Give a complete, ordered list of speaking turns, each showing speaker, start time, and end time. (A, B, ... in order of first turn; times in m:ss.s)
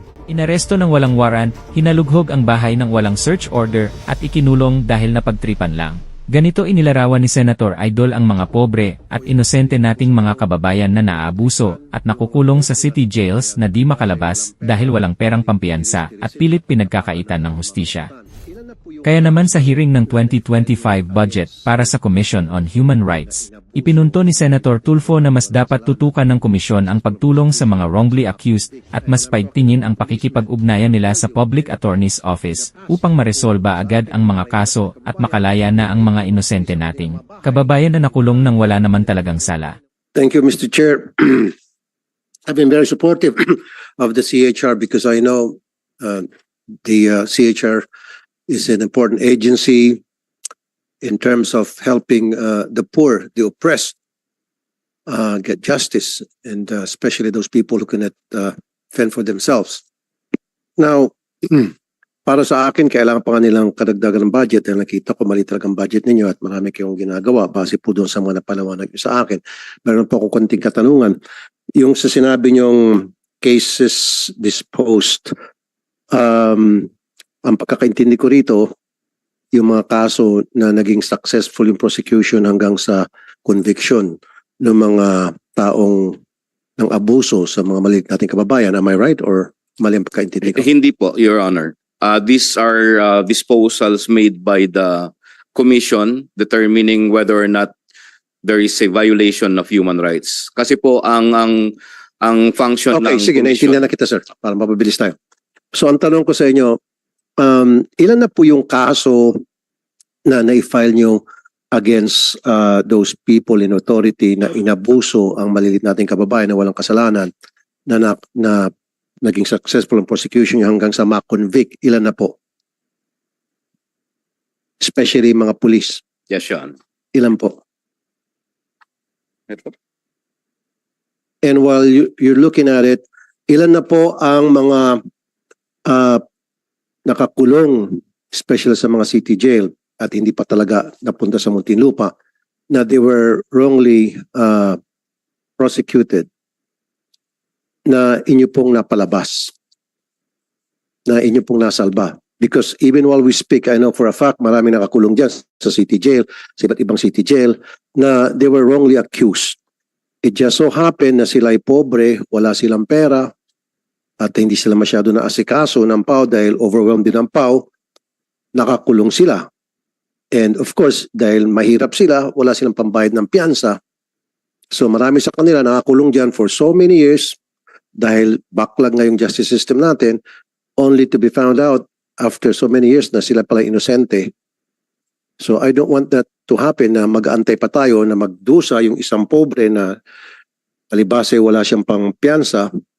0:00.3-0:18.1 A
0:09.1-0:39.5 B
0:19.0-0:39.8 A
0:40.2-0:41.5 B
0:42.5-0:46.3 B
0:46.8-0:47.9 B
0:48.5-0:50.0 B
0:51.0-0:54.0 B
0:55.1-0:59.8 B
1:00.8-1:01.7 B
1:02.3-1:11.2 B
1:11.8-1:15.3 B
1:16.1-1:16.9 B
1:17.4-1:18.7 B
1:19.5-1:26.2 B
1:26.8-1:30.7 B
1:30.5-1:37.7 C
1:38.4-1:43.8 C
1:42.9-1:45.2 B
1:45.7-1:46.8 B
1:47.4-1:49.4 B
1:50.3-1:51.2 B
1:51.7-1:57.3 B
1:57.9-1:58.7 B
1:59.2-2:02.4 B
2:04.8-2:06.0 B
2:06.3-2:06.7 C
2:07.1-2:07.6 B
2:11.4-2:15.0 B
2:15.9-2:16.2 B
2:17.1-2:22.1 B
2:22.7-2:24.8 B
2:25.6-2:26.3 B
2:27.9-2:29.5 B
2:31.1-2:39.6 B
2:40.2-2:43.3 B
2:44.2-2:47.7 B
2:48.5-2:49.5 B
2:50.3-2:53.8 B
2:54.7-2:57.4 B
2:58.0-3:00.2 B
3:00.8-3:04.3 B
3:05.4-3:10.0 B
3:10.9-3:12.7 B